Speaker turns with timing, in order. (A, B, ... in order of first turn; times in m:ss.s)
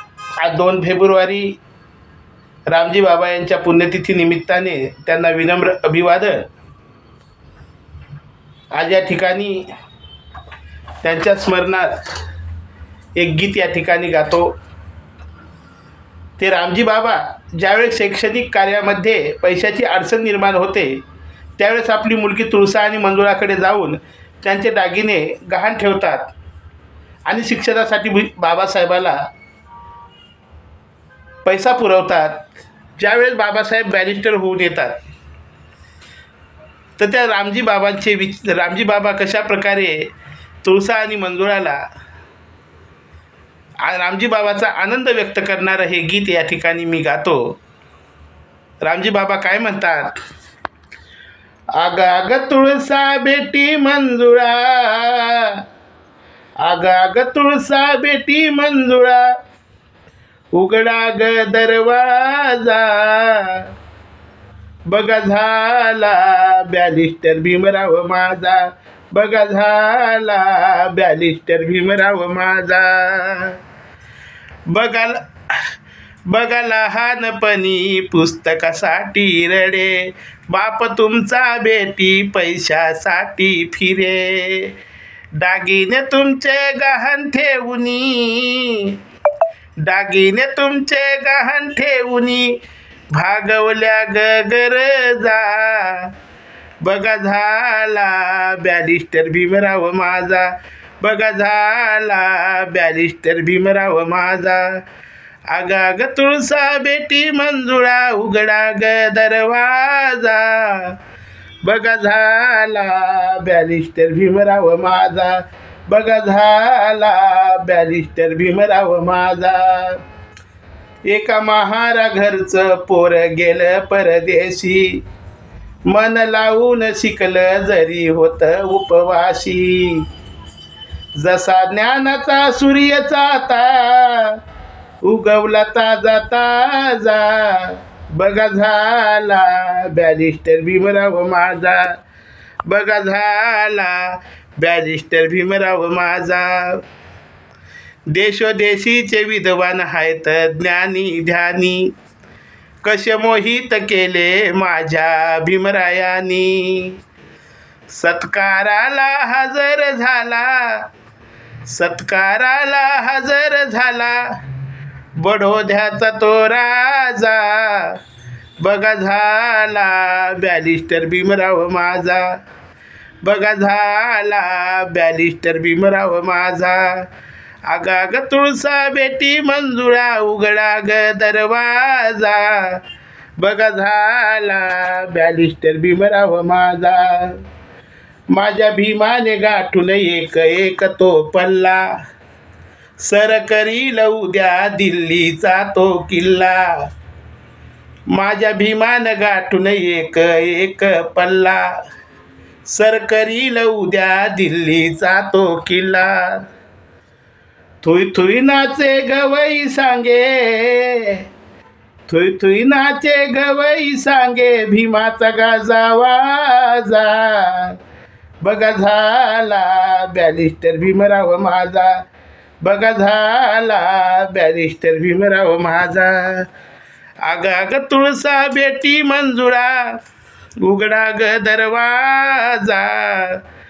0:00.4-0:01.6 A
0:02.7-0:06.5 A
0:08.7-0:09.6 A
0:11.0-0:12.0 A
0:13.2-0:14.5 A
0:16.4-0:21.0 A
0:21.6-0:26.3 A
0:27.2-0:29.2 A
0:31.4-0:35.0 A
0:37.0-0:40.1 A
0:40.6-0:41.8 A
0:43.8-0:47.6 A
0:48.8-0:50.1 A
0:51.8-0:55.6 A
0:56.6-0:59.3 A
1:00.5-1:03.7 A
1:04.9-1:13.6 A
1:14.7-1:15.7 A
1:16.3-1:24.7 A
1:25.4-1:29.0 A
1:29.8-1:32.5 A
1:33.1-1:36.1 A
1:36.8-1:44.8 A
1:45.5-1:51.0 A
1:51.6-2:00.0 A
2:01.1-2:05.0 A
2:05.9-2:10.0 A
2:11.2-2:14.4 A
2:15.0-2:22.0 A
2:22.6-2:26.8 A
2:28.1-2:31.9 A
2:32.8-2:37.0 A
2:37.9-2:40.8 A
2:41.6-2:44.4 A
2:45.2-2:48.0 A
2:48.6-2:52.4 A
2:53.2-2:57.0 A
2:57.7-3:02.8 A
3:03.4-3:07.4 A
3:08.3-3:11.9 A
3:13.0-3:16.9 A
3:18.1-3:21.7 A
3:22.6-3:26.4 A
3:27.8-3:31.2 A
3:32.1-3:37.8 A
3:38.4-3:42.1 A
3:42.6-3:46.5 A
3:47.2-3:50.0 A
3:50.6-3:53.4 A